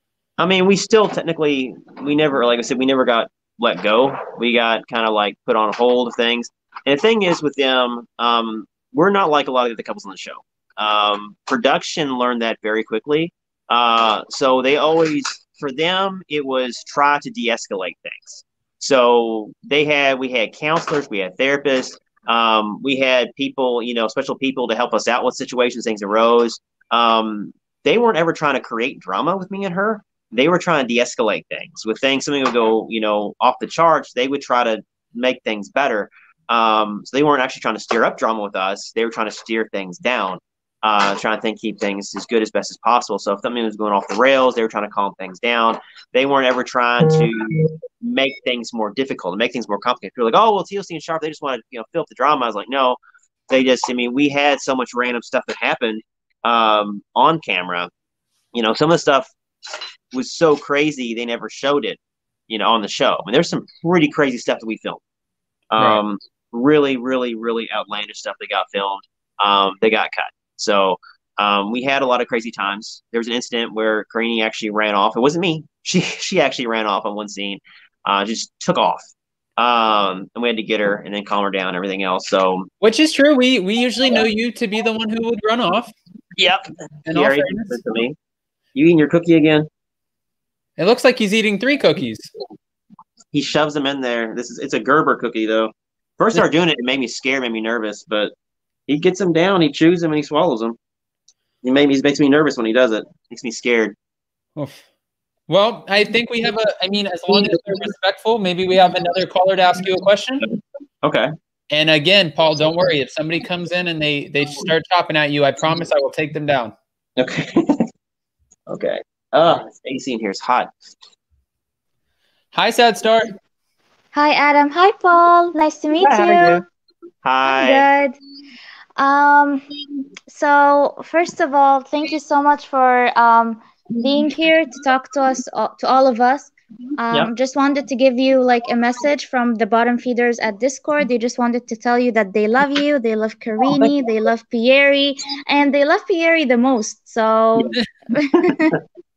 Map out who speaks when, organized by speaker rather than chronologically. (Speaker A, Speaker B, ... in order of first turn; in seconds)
Speaker A: 0.4-53.0, 53.5-57.9, 58.5-59.3, 60.1-65.0, 65.7-82.7, 86.4-88.2, 88.8-89.7, 93.3-98.3, 98.9-100.8, 101.6-104.0, 110.4-111.3, 117.2-117.9, 118.7-120.7, 126.0-126.6, 127.2-127.9, 143.6-144.0
Speaker B: 82.8-85.9, 87.1-87.8, 90.8-92.3, 104.6-104.8, 105.5-110.5, 111.7-116.7, 122.5-123.3
Speaker C: 124.1-126.6, 127.5-128.2, 129.0-129.6, 130.3-148.8